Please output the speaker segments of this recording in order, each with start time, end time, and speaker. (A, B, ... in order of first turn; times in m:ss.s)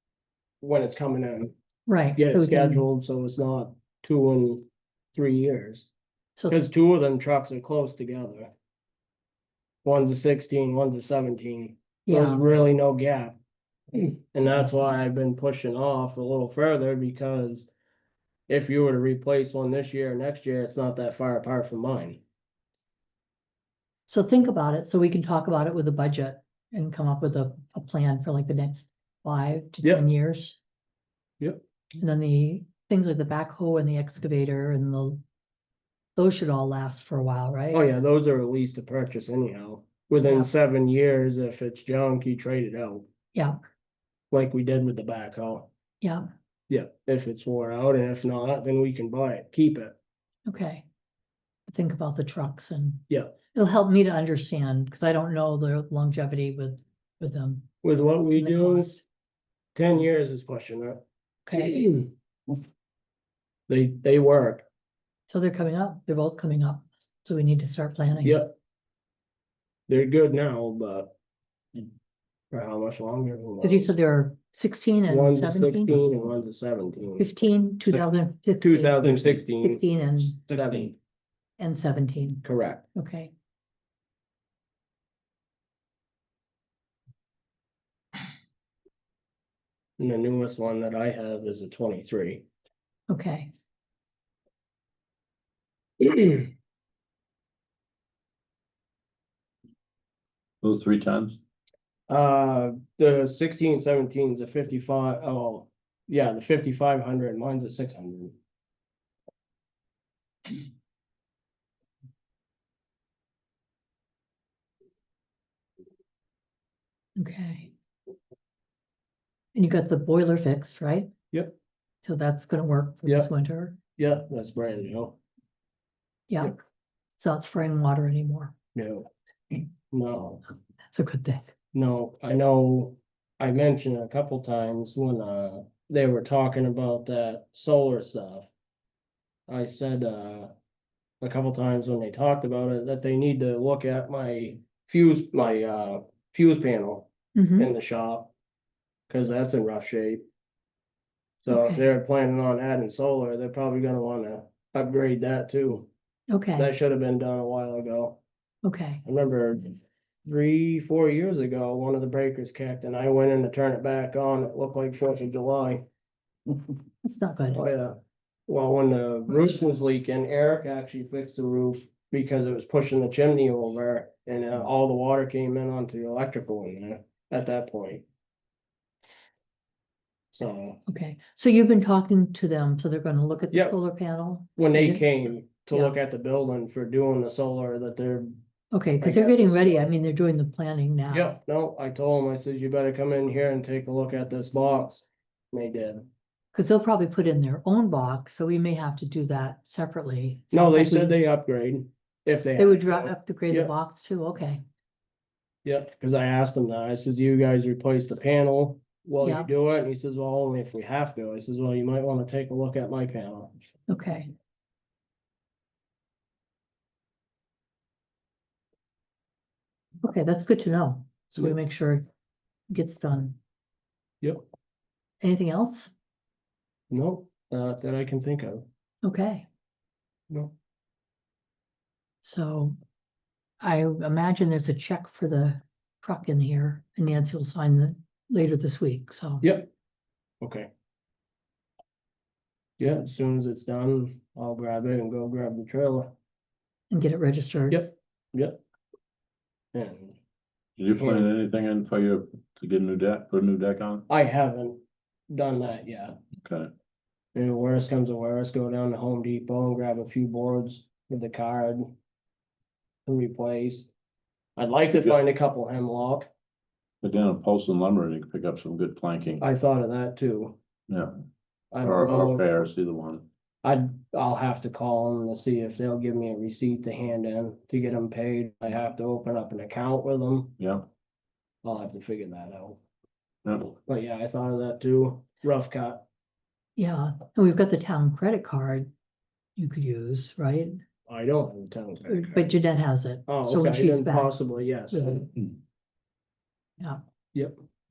0:00.6-0:01.5 A
0:01.9-0:02.8 B
0:02.2-0:05.9 A
0:06.5-0:08.5 A
0:09.8-0:13.4 A
0:12.1-0:12.4 B
0:13.9-0:17.7 A
0:18.5-0:22.2 A
0:24.1-0:30.6 B
0:32.0-0:35.2 B
0:36.2-0:37.8 B
0:37.7-0:43.1 A
0:40.2-0:40.5 B
0:44.3-0:45.7 A
0:46.0-0:46.3 B
0:46.7-0:50.0 A
0:50.4-0:50.8 B
0:51.7-0:57.7 B
0:53.1-0:53.3 A
0:57.8-0:58.9 A
0:58.4-0:59.0 B
0:59.7-1:02.1 A
1:01.5-1:01.9 B
1:03.7-1:04.6 A
1:05.3-1:08.4 B
1:08.2-1:08.5 A
1:09.9-1:11.1 A
1:12.5-1:13.9 A
1:13.6-1:16.0 B
1:15.1-1:17.2 A
1:17.2-1:20.4 B
1:18.6-1:21.0 A
1:21.6-1:23.3 B
1:22.4-1:22.8 A
1:30.0-1:32.4 A
1:33.1-1:33.5 B
1:36.0-1:36.5 A
1:40.6-1:41.4 C
1:42.1-1:48.4 A
1:57.2-1:57.7 B
1:59.6-2:01.1 B
2:02.0-2:03.8 B
2:04.0-2:05.2 A
2:06.3-2:06.6 B
2:07.2-2:08.5 B
2:08.8-2:09.1 A
2:09.9-2:10.4 A
2:10.9-2:11.5 B
2:11.7-2:18.5 A
2:19.5-2:20.5 A
2:21.2-2:28.3 A
2:27.3-2:27.7 B
2:29.1-2:30.2 A
2:31.4-2:35.9 A
2:31.5-2:31.8 B
2:36.3-2:36.7 B
2:36.6-2:38.2 A
2:38.6-2:39.0 B
2:39.0-2:45.8 A
2:47.0-2:47.6 B
2:47.5-2:58.0 A
3:00.3-3:00.8 A
3:00.9-3:05.1 B
3:04.6-3:08.4 A
3:08.7-3:11.3 B
3:09.0-3:09.9 A
3:11.1-3:16.1 A
3:16.5-3:21.2 B
3:20.5-3:23.7 A
3:22.6-3:24.6 B
3:25.6-3:33.5 A
3:29.2-3:29.5 B
3:33.9-3:34.3 B
3:40.0-3:42.0 B
3:42.7-3:43.4 B
3:45.2-3:45.9 B
3:46.9-3:48.7 A
3:49.0-3:49.5 B
3:52.2-3:52.8 B
3:53.6-3:59.4 B
3:59.4-3:59.7 A
4:00.4-4:00.7 A
4:02.8-4:06.1 A
4:06.9-4:07.8 B
4:07.7-4:08.6 A
4:09.7-4:10.2 A
4:10.8-4:14.1 C
4:11.0-4:11.3 A
4:14.1-4:16.2 A
4:16.4-4:16.7 C
4:17.4-4:21.9 A
4:23.1-4:23.9 A
4:24.6-4:26.3 A
4:27.0-4:29.4 C
4:29.4-4:30.6 A
4:30.9-4:31.2 C
4:31.7-4:32.5 A
4:31.8-4:33.3 C
4:33.6-4:40.6 A
4:40.6-4:40.9 C
4:41.6-4:42.8 A
4:43.4-4:43.7 C
4:43.9-4:46.0 A
4:46.8-4:48.9 B
4:49.6-4:50.8 B
4:51.1-4:52.5 A
4:52.1-4:54.4 B
4:53.3-4:55.3 A
4:54.9-4:55.2 B
4:57.3-4:57.6 A